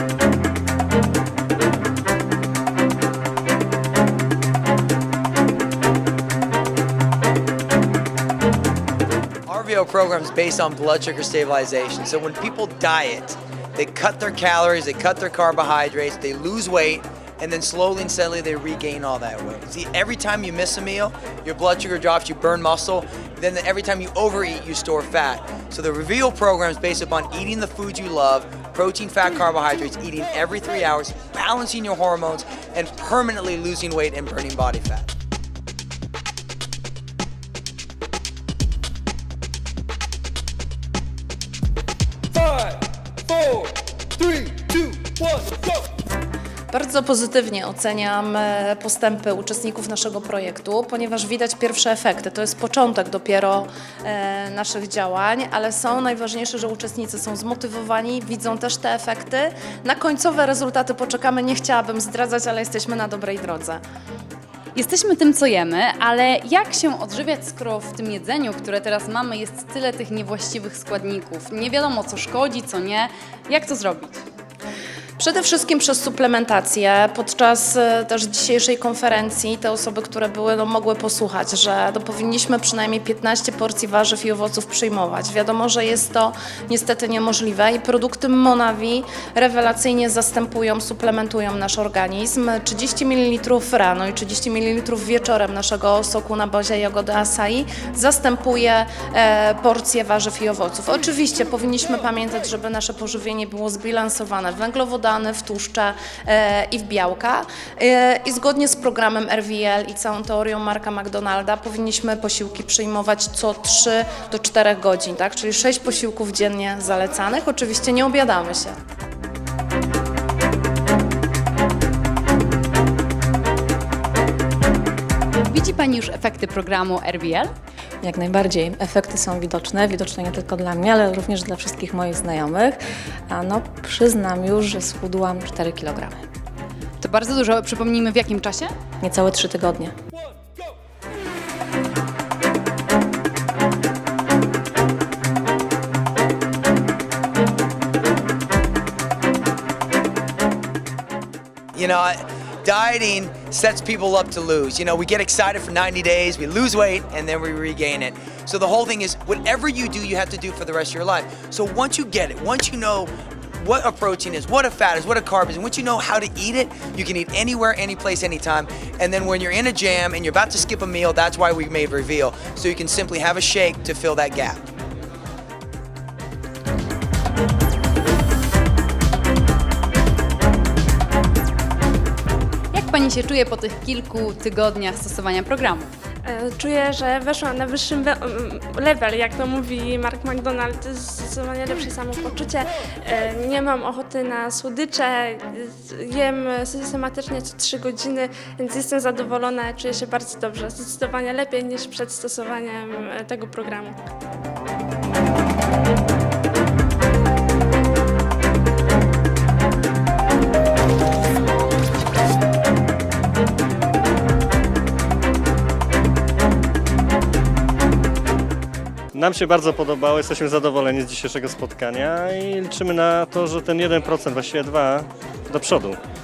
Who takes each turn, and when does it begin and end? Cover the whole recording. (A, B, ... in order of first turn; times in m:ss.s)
0:09.5-0:35.1 A
0:46.7-1:03.8 B
1:04.7-1:14.2 C
1:15.2-1:58.7 B
2:05.5-2:07.5 C
2:08.0-2:12.8 D
2:13.3-2:16.2 D
2:17.0-2:18.7 C
2:19.0-2:19.9 D
2:31.7-2:54.6 A
3:02.7-3:05.9 C
3:06.2-3:24.0 E
3:39.1-3:46.0 F